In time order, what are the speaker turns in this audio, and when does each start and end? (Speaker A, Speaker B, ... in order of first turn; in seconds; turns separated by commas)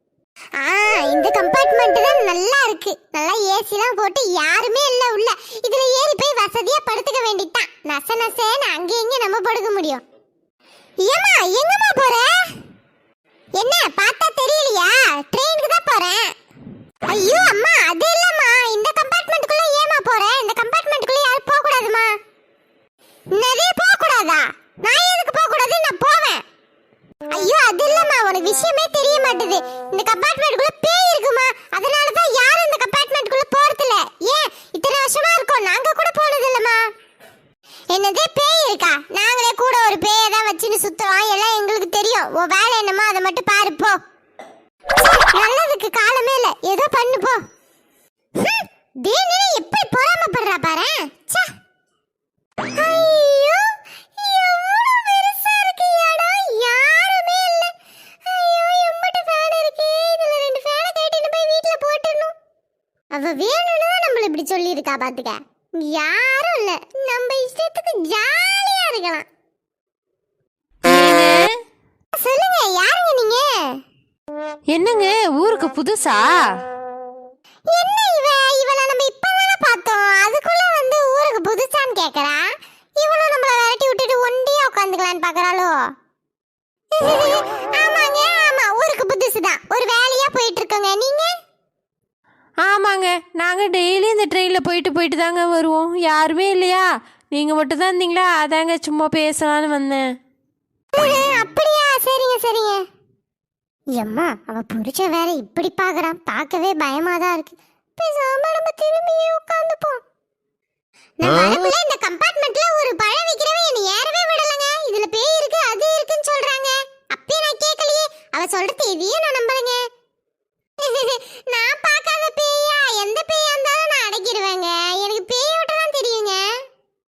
Speaker A: 0.6-10.0, Speaker A: 11.0-12.3, Speaker A: 13.6-16.3, Speaker A: 17.1-22.1, Speaker A: 23.3-26.4, Speaker A: 27.3-36.8, Speaker A: 37.9-44.0, Speaker A: 45.0-47.4, Speaker A: 48.4-51.5, Speaker A: 52.7-57.7, Speaker A: 58.2-62.3, Speaker A: 63.1-69.2, Speaker B: 70.8-71.5, Speaker A: 72.2-73.5, Speaker B: 74.7-76.3, Speaker A: 77.7-82.4, Speaker A: 83.0-85.7, Speaker A: 87.0-91.3, Speaker B: 92.6-100.1, Speaker A: 100.9-102.8, Speaker A: 103.9-110.0, Speaker A: 111.2-119.8, Speaker A: 120.8-126.5